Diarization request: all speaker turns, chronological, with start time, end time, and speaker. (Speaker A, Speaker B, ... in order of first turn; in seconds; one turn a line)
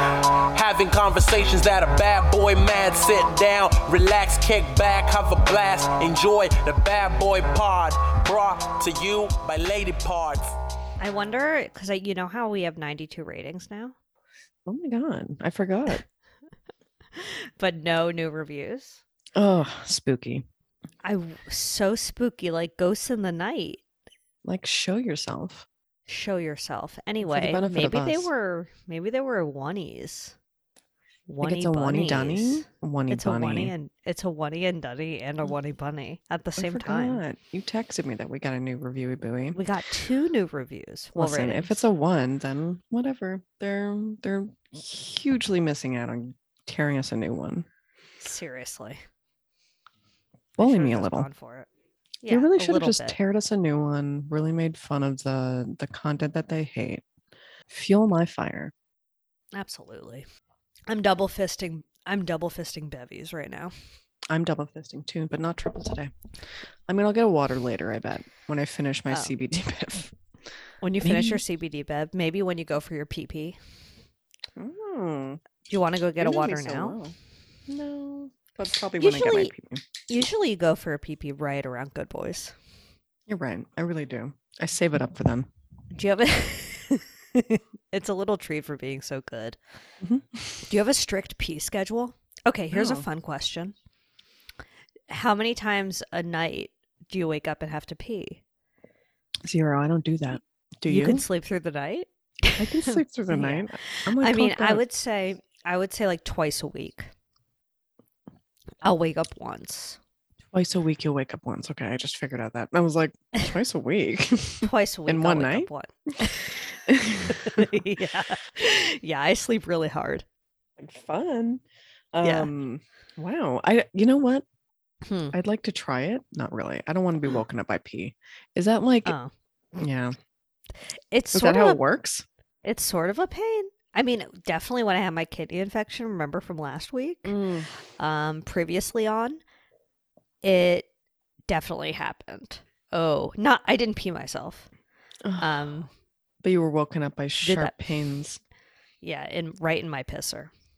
Speaker A: 0.5-10.5
Speaker B: 11.0-13.9
Speaker C: 14.7-16.0
Speaker B: 17.2-19.0
Speaker C: 19.4-20.4
Speaker B: 21.0-23.8
Speaker C: 24.4-25.7
Speaker B: 26.1-30.4
Speaker C: 27.2-28.3
Speaker B: 31.3-37.2
Speaker C: 31.4-33.7
Speaker C: 36.6-39.6
Speaker B: 39.5-41.8
Speaker C: 41.1-47.7
Speaker B: 48.2-49.0
Speaker C: 50.6-51.3
Speaker B: 50.6-51.7
Speaker B: 52.2-53.2
Speaker C: 52.3-57.0
Speaker C: 57.7-58.7
Speaker B: 59.5-60.3
Speaker B: 60.9-63.7
Speaker C: 64.3-66.1
Speaker C: 66.9-70.2
Speaker B: 70.8-73.6
Speaker C: 71.0-71.4
Speaker C: 74.6-75.4
Speaker B: 75.7-77.0
Speaker C: 76.2-77.2
Speaker C: 77.7-79.8
Speaker B: 79.0-79.5
Speaker B: 80.1-82.5
Speaker C: 83.3-85.5
Speaker B: 85.9-89.6
Speaker C: 90.0-90.6
Speaker B: 90.7-93.7
Speaker C: 92.7-93.1
Speaker B: 95.1-98.4
Speaker C: 99.5-101.2
Speaker B: 100.9-107.1
Speaker C: 102.6-104.8
Speaker B: 108.8-110.0
Speaker C: 110.5-115.7
Speaker B: 114.6-116.5
Speaker C: 116.9-117.7
Speaker B: 117.3-120.2
Speaker C: 120.8-121.6
Speaker C: 122.1-124.4
Speaker B: 122.2-122.5
Speaker B: 125.0-125.3
Speaker C: 125.3-129.2
Speaker B: 129.1-129.3
Speaker C: 129.8-130.2
Speaker B: 131.1-131.8
Speaker C: 131.3-132.2
Speaker B: 132.6-137.3
Speaker C: 137.2-137.7
Speaker B: 138.0-139.4
Speaker B: 140.4-140.9
Speaker B: 141.5-144.7
Speaker C: 145.2-145.5
Speaker B: 145.4-145.9
Speaker C: 146.4-148.4
Speaker B: 147.4-147.8
Speaker B: 149.0-150.5